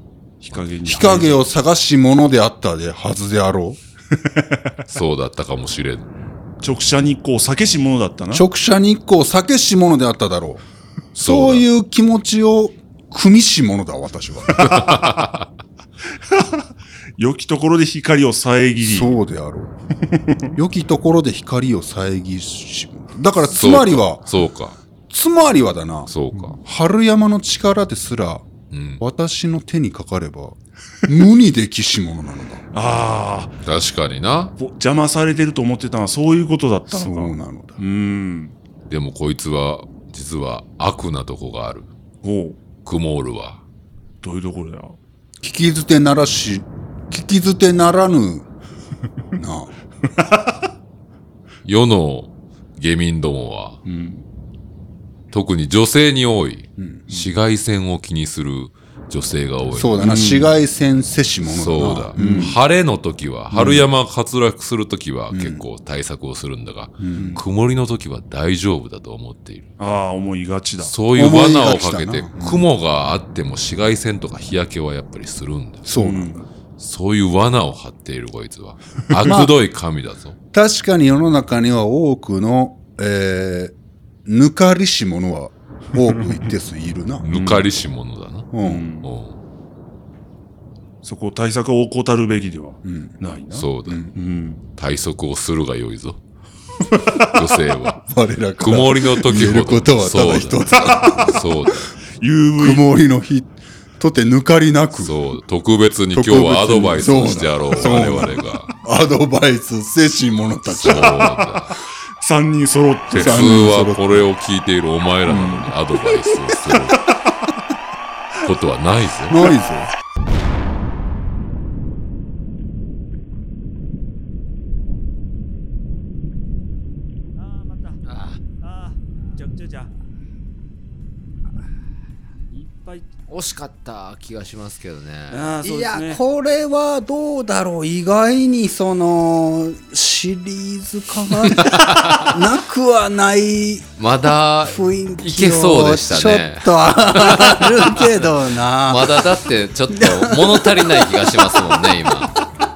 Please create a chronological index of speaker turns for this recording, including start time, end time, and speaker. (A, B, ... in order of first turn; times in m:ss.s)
0:00.4-0:01.4 A
0:00.5-0:03.8 B
0:04.8-0:06.1 C
0:06.6-0:08.4 A
0:08.3-0:14.9 B
0:11.2-0:11.7 C
0:14.6-0:15.5 C
0:17.2-0:19.1 A
0:18.8-0:19.8 B
0:20.6-0:24.3 B
0:23.5-0:24.8 C
0:25.1-0:28.5 B
0:26.1-0:26.6 C
0:28.7-0:29.0 C
0:29.0-0:32.6 B
0:32.8-0:33.5 A
0:33.6-0:34.6 C
0:34.6-0:37.3 A
0:36.9-0:37.8 B
0:37.8-0:38.5 A
0:38.9-0:41.9 C
0:42.2-0:42.5 A
0:42.8-0:43.6 C
0:44.2-0:44.9 A
0:45.4-0:48.5 B
0:49.4-0:49.7 B
0:51.6-0:53.8 C
0:53.9-0:54.2 A
0:55.3-1:00.0 C
0:56.8-0:57.1 B
0:59.7-1:02.6 B
1:00.0-1:00.5 A
1:01.4-1:09.7 C
1:02.2-1:02.5 A
1:03.5-1:03.9 B
1:05.3-1:05.6 B
1:07.0-1:07.4 B
1:09.8-1:10.9 A
1:10.8-1:15.9 C
1:11.1-1:12.7 B
1:15.8-1:16.4 B
1:16.0-1:16.3 A
1:16.8-1:20.4 C
1:19.2-1:19.5 B
1:20.5-1:23.8 B
1:24.3-1:27.2 B
1:27.2-1:29.4 C
1:27.3-1:27.6 A
1:28.5-1:28.9 B
1:28.7-1:29.1 A
1:31.0-1:34.6 A
1:32.8-1:33.2 B
1:33.5-1:34.0 C
1:33.8-1:34.1 B
1:34.8-1:36.2 C
1:37.1-1:41.5 B
1:37.3-1:38.0 C
1:38.6-1:41.9 C
1:42.2-1:42.8 A
1:42.6-1:45.2 B
1:44.9-1:48.7 C
1:46.1-1:51.6 B
1:50.7-1:51.8 C
1:52.2-1:53.4 A
1:53.1-1:54.3 B
1:53.1-1:57.0 C
1:55.3-1:55.7 B
1:58.4-1:59.4 C
1:59.3-1:59.9 B
2:07.4-2:08.0 D
2:08.0-2:08.4 E
2:08.6-2:09.9 D
2:12.5-2:13.1 D
2:13.3-2:15.5 E
2:15.3-2:16.2 D
2:15.6-2:23.9 F
2:21.6-2:22.3 E
2:24.0-2:27.7 E
2:24.7-2:29.2 F
2:28.9-2:32.3 E
2:29.9-2:30.8 F